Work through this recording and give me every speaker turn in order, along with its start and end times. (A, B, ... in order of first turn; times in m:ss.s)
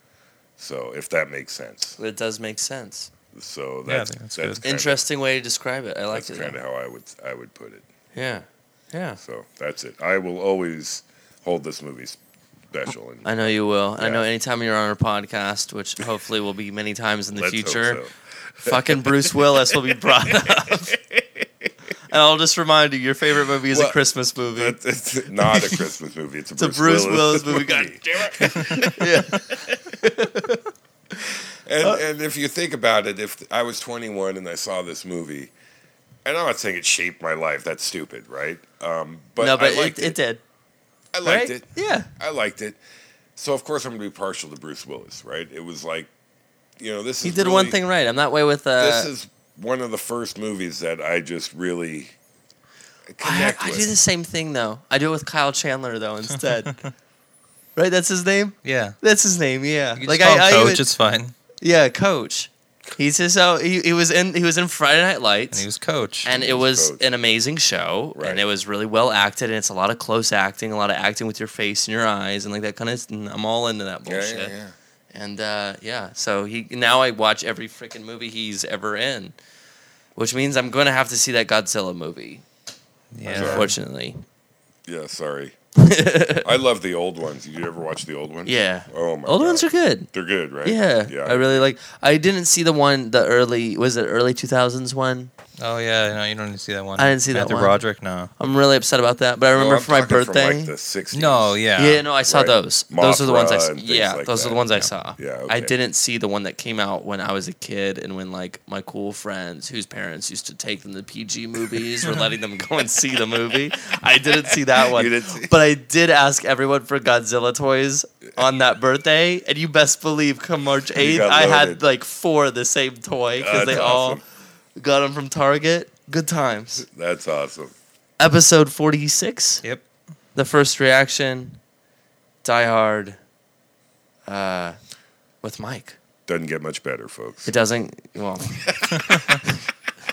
0:00.6-0:02.0 A
0:02.0-0:03.1 B
0:03.3-0:05.0 A
0:03.9-0:04.6 C
0:04.6-0:06.6 B
0:06.1-0:07.9 A
0:08.1-0:09.2 B
0:09.2-0:12.2 A
0:12.7-0:14.2 A
0:13.2-0:18.0 B
0:17.3-0:21.2 A
0:18.6-0:21.0 B
0:22.1-0:24.8 B
0:23.7-0:24.0 A
0:24.6-0:29.7 A
0:25.4-0:25.9 B
0:26.6-0:32.0 B
0:28.6-0:28.9 C
0:31.7-0:35.5 A
0:36.2-0:40.2 A
0:39.4-0:40.4 B
0:41.1-0:42.8 A
0:41.2-0:42.1 B
0:43.4-0:46.1 A
0:46.8-0:47.8 A
0:47.2-0:49.1 B
0:48.8-0:52.2 A
0:53.1-0:53.9 A
0:53.2-0:56.8 B
0:57.8-1:00.8 B
0:58.6-0:59.0 C
1:00.0-1:01.3 C
1:01.6-1:05.6 B
1:05.5-1:06.3 C
1:06.2-1:14.5 B
1:06.3-1:07.0 A
1:08.2-1:08.5 A
1:14.1-1:14.7 A
1:15.1-1:19.3 B
1:20.2-1:22.4 B
1:23.1-1:23.7 C
1:23.3-1:23.7 A
1:23.3-1:24.2 B
1:24.9-1:25.6 A
1:25.8-1:26.5 B
1:26.4-1:31.7 A
1:28.5-1:30.1 B
1:30.6-1:35.3 B
1:35.6-1:38.3 C
1:37.0-1:37.8 B
1:38.4-1:40.7 B
1:39.5-1:41.6 A
1:41.1-1:42.1 C
1:41.8-2:04.2 B
1:42.2-1:45.7 A
1:54.8-1:55.5 A
2:01.0-2:01.8 A
2:03.4-2:04.2 A
2:04.8-2:06.9 B
2:06.8-2:07.8 A
2:08.2-2:09.6 B
2:10.4-2:11.6 B
2:12.4-2:13.2 B
2:14.3-2:14.8 B
2:15.4-2:16.0 B
2:16.3-2:17.5 A
2:17.4-2:19.6 B